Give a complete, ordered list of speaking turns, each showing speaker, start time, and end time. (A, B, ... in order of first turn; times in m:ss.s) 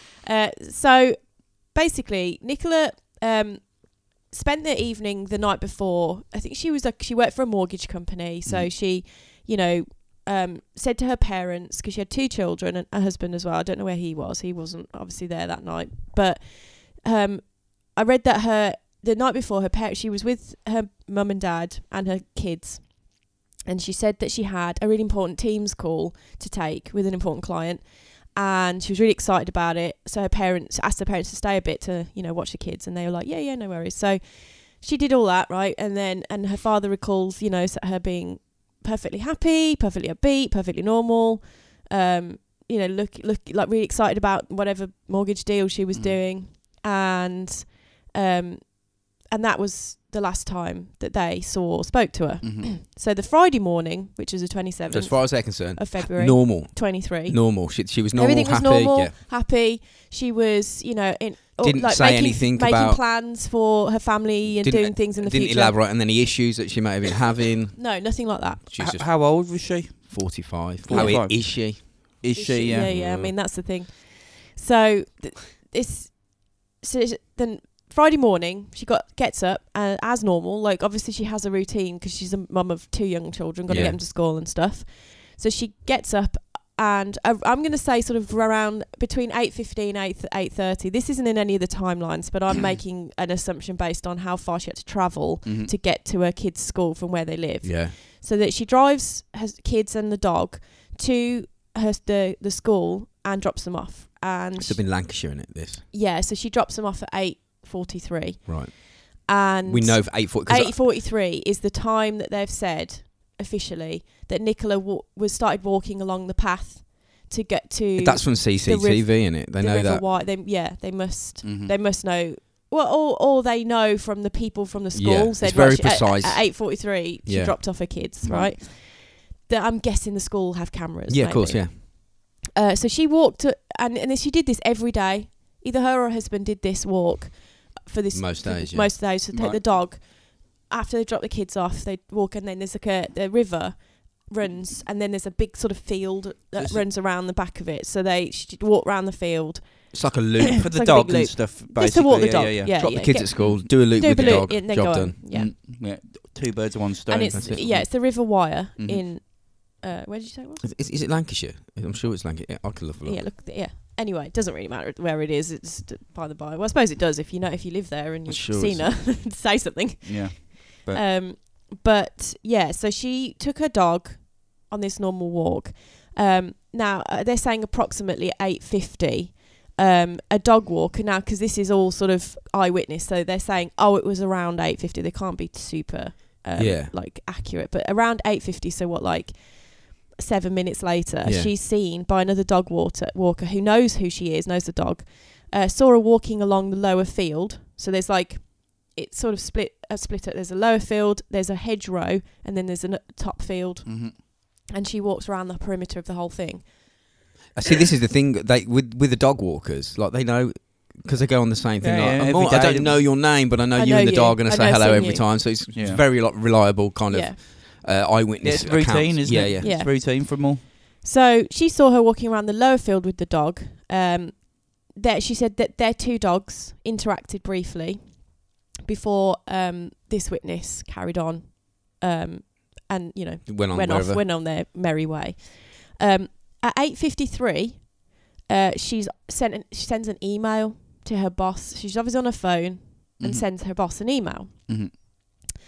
0:00.2-1:05.8 A
0:52.4-0:52.7 B
0:54.9-0:59.1 C
1:01.6-1:03.0 C
1:04.5-1:09.1 C
1:07.8-1:08.6 A
1:08.8-1:12.9 B
1:10.1-1:12.2 C
1:10.9-1:11.2 A
1:12.3-1:45.2 A
1:12.8-1:13.3 C
1:23.7-1:24.0 C
1:35.4-1:35.7 B
1:37.6-1:38.0 C
1:44.6-1:45.8 C
1:45.9-2:35.5 A
1:48.4-1:48.8 C
1:49.6-1:50.8 C
1:58.0-2:00.0 C
2:01.4-2:01.7 B
2:04.9-2:07.9 C
2:08.2-2:08.6 B
2:11.1-2:11.8 C
2:18.1-2:19.0 C
2:19.3-2:19.8 B
2:26.6-2:26.8 B
2:29.9-2:30.6 C
2:30.6-2:33.7 B
2:32.7-2:35.2 C
2:35.3-2:38.2 B
2:37.1-2:40.7 A
2:37.3-2:37.8 C
2:38.8-2:39.0 B
2:40.6-2:43.2 C
2:43.0-3:27.1 A
2:48.2-2:49.1 C
2:50.0-2:51.0 B
3:06.6-3:06.9 C
3:11.2-3:11.5 C
3:23.8-3:24.2 B
3:27.5-3:39.7 C
3:31.8-3:33.0 B
3:33.7-3:35.2 A
3:35.7-3:36.0 B
3:37.1-3:37.4 A
3:38.4-3:40.6 B
3:39.6-4:04.7 A
3:53.4-3:54.2 C
4:03.2-4:03.4 B
4:04.7-4:04.9 B